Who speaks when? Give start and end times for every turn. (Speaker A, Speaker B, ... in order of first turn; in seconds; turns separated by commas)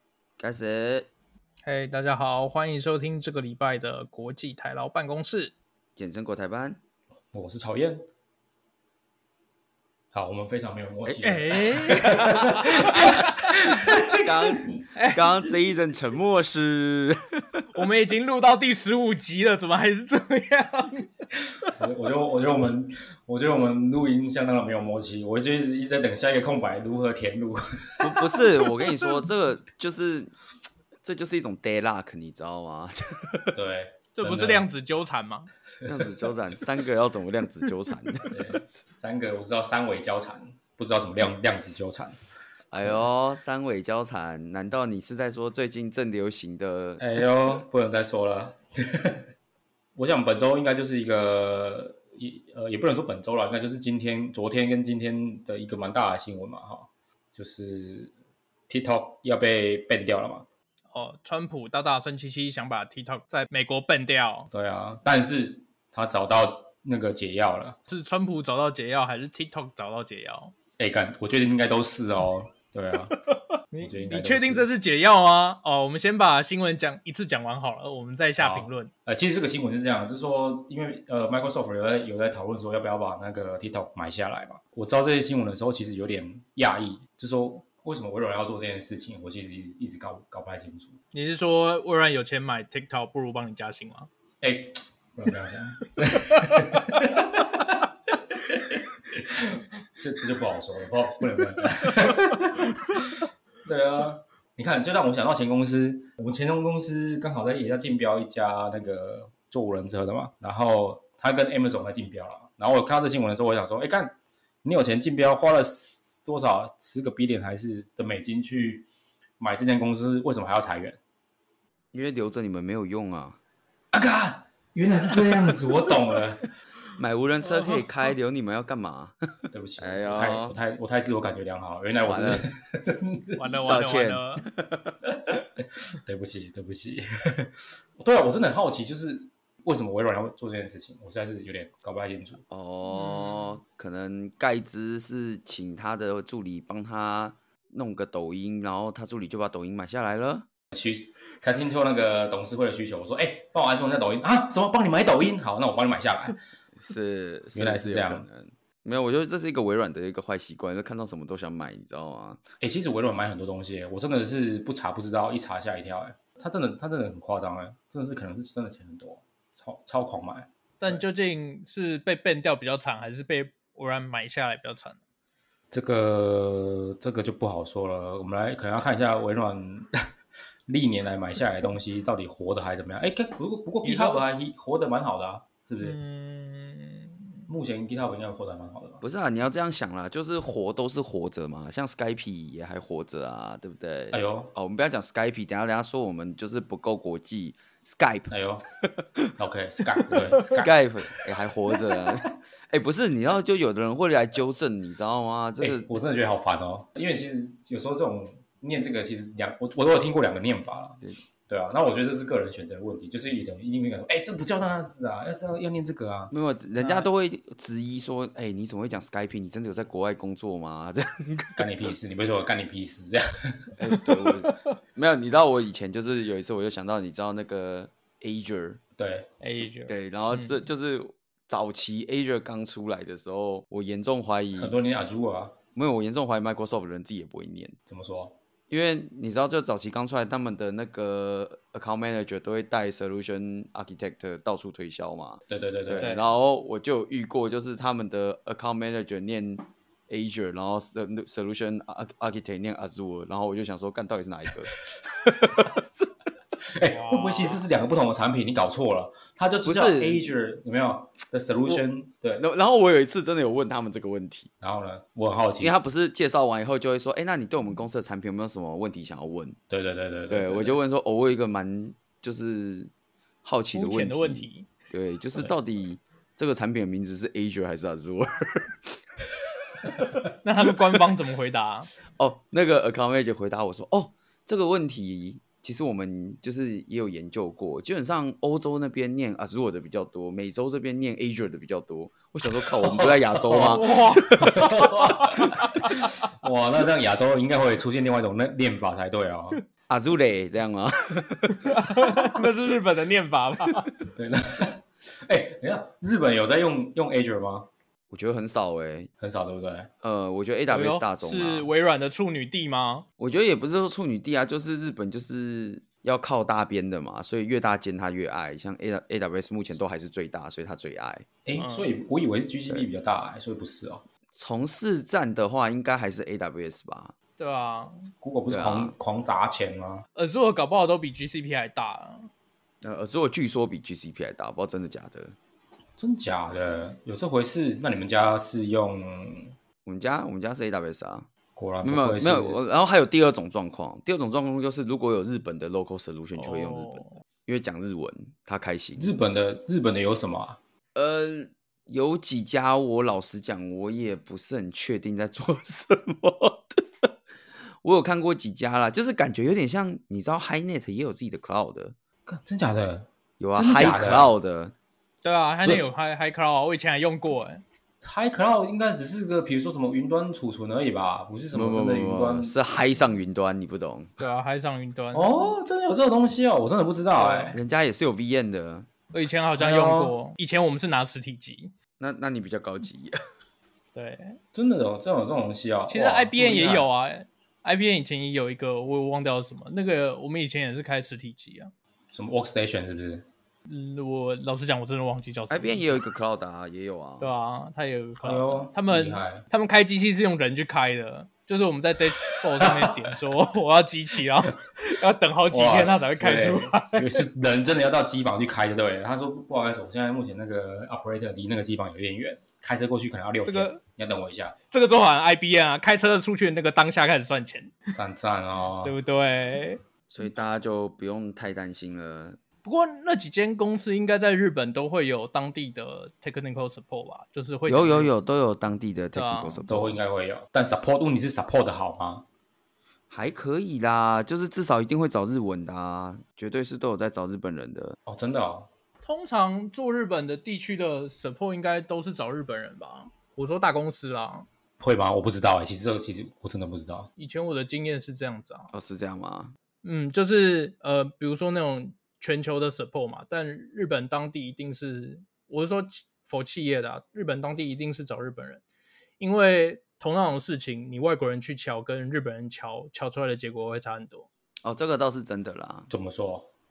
Speaker A: 0.4-1.1, Speaker B: 1.6-5.5, Speaker A: 6.0-6.8, Speaker C: 7.3-8.0, Speaker C: 10.1-14.8, Speaker B: 11.2-12.3, Speaker A: 12.0-13.3, Speaker A: 13.8-17.6, Speaker B: 14.9-15.2, Speaker B: 17.7-21.7, Speaker C: 21.6-28.4, Speaker A: 28.0-30.3, Speaker A: 31.0-33.5, Speaker C: 33.5-34.7, Speaker B: 34.1-35.5, Speaker A: 35.8-38.4, Speaker C: 38.3-42.1, Speaker A: 42.7-47.2, Speaker C: 47.0-49.2, Speaker C: 50.0-58.1, Speaker C: 58.7-60.5, Speaker B: 60.9-64.5, Speaker C: 64.5-67.8, Speaker B: 67.9-70.5, Speaker C: 70.8-73.1, Speaker B: 73.1-78.9, Speaker C: 73.8-74.7, Speaker C: 78.4-91.0, Speaker B: 91.1-94.1, Speaker C: 94.4-97.8, Speaker C: 98.5-118.8, Speaker C: 119.4-121.0, Speaker A: 121.9-123.4, Speaker C: 123.9-126.5, Speaker A: 127.0-129.2, Speaker B: 127.4-127.8, Speaker C: 129.5-133.4, Speaker A: 129.8-130.6, Speaker A: 132.1-132.4, Speaker B: 133.4-134.4, Speaker A: 133.7-134.9, Speaker C: 136.1-142.4, Speaker A: 142.5-150.5, Speaker B: 142.9-143.5, Speaker C: 150.7-156.4, Speaker A: 156.8-162.6, Speaker C: 157.5-158.2, Speaker C: 162.6-171.0, Speaker B: 170.8-175.0, Speaker C: 175.7-180.0, Speaker C: 180.7-186.0, Speaker B: 183.8-184.2, Speaker B: 185.8-187.3, Speaker C: 187.5-189.0, Speaker A: 189.0-198.3, Speaker C: 194.1-194.5, Speaker C: 198.3-198.6, Speaker A: 198.8-199.3, Speaker C: 199.3-200.7, Speaker A: 200.5-205.9, Speaker C: 205.6-216.3, Speaker A: 216.3-221.7, Speaker B: 216.8-217.1, Speaker C: 221.6-223.7, Speaker A: 223.8-228.8, Speaker C: 229.0-229.3, Speaker B: 229.4-230.6, Speaker A: 229.9-234.8, Speaker C: 234.5-235.5, Speaker A: 235.7-237.8, Speaker C: 237.9-238.3, Speaker A: 238.7-256.1, Speaker C: 245.5-246.2, Speaker C: 256.7-262.4, Speaker B: 256.9-257.6, Speaker A: 259.6-260.3, Speaker A: 262.4-264.5, Speaker C: 264.6-265.7, Speaker A: 265.6-269.6, Speaker C: 269.7-270.8, Speaker A: 270.3-272.9, Speaker A: 273.4-279.0, Speaker B: 273.7-274.7, Speaker B: 280.4-281.9, Speaker A: 282.2-294.9, Speaker C: 292.8-299.6, Speaker B: 293.5-296.1, Speaker A: 299.9-301.7, Speaker B: 301.6-303.9, Speaker C: 304.1-307.7, Speaker A: 308.1-309.1, Speaker C: 309.2-309.9, Speaker A: 310.0-311.7, Speaker B: 310.7-313.1, Speaker A: 313.2-321.2, Speaker C: 321.4-324.0, Speaker B: 321.6-321.9, Speaker A: 324.3-327.1, Speaker B: 327.4-328.1, Speaker C: 328.2-330.0, Speaker A: 328.5-328.9, Speaker B: 330.1-332.3, Speaker A: 332.8-335.4, Speaker C: 336.0-339.5, Speaker A: 339.8-341.3, Speaker C: 341.6-342.6, Speaker A: 341.8-349.1, Speaker B: 346.4-347.2, Speaker C: 349.0-350.6, Speaker A: 350.9-357.1, Speaker A: 357.8-361.9, Speaker C: 362.3-364.3, Speaker A: 363.4-364.7, Speaker B: 365.2-367.6, Speaker C: 368.0-372.5, Speaker A: 371.5-374.2, Speaker B: 374.2-375.5, Speaker C: 375.1-377.6, Speaker B: 377.2-377.6, Speaker A: 377.5-378.9, Speaker B: 379.1-381.7, Speaker C: 379.6-380.1, Speaker A: 382.0-383.1, Speaker B: 383.9-384.4, Speaker C: 384.5-386.9, Speaker B: 385.9-391.7, Speaker C: 392.1-393.2, Speaker B: 393.7-396.0, Speaker A: 395.5-397.3, Speaker B: 397.2-407.2, Speaker C: 398.2-399.4, Speaker C: 405.5-414.5, Speaker B: 413.4-413.8, Speaker B: 414.7-417.8, Speaker C: 417.9-418.9, Speaker B: 418.8-419.8, Speaker A: 420.1-422.4, Speaker B: 422.6-428.1, Speaker A: 427.7-430.0, Speaker B: 429.1-429.6, Speaker C: 429.7-432.2, Speaker A: 433.1-438.0, Speaker C: 438.1-438.7, Speaker B: 439.0-444.5, Speaker C: 444.8-447.1, Speaker B: 447.2-448.7, Speaker A: 448.7-449.5, Speaker B: 449.8-458.6, Speaker B: 459.2-464.3, Speaker A: 464.6-465.9, Speaker C: 465.9-466.5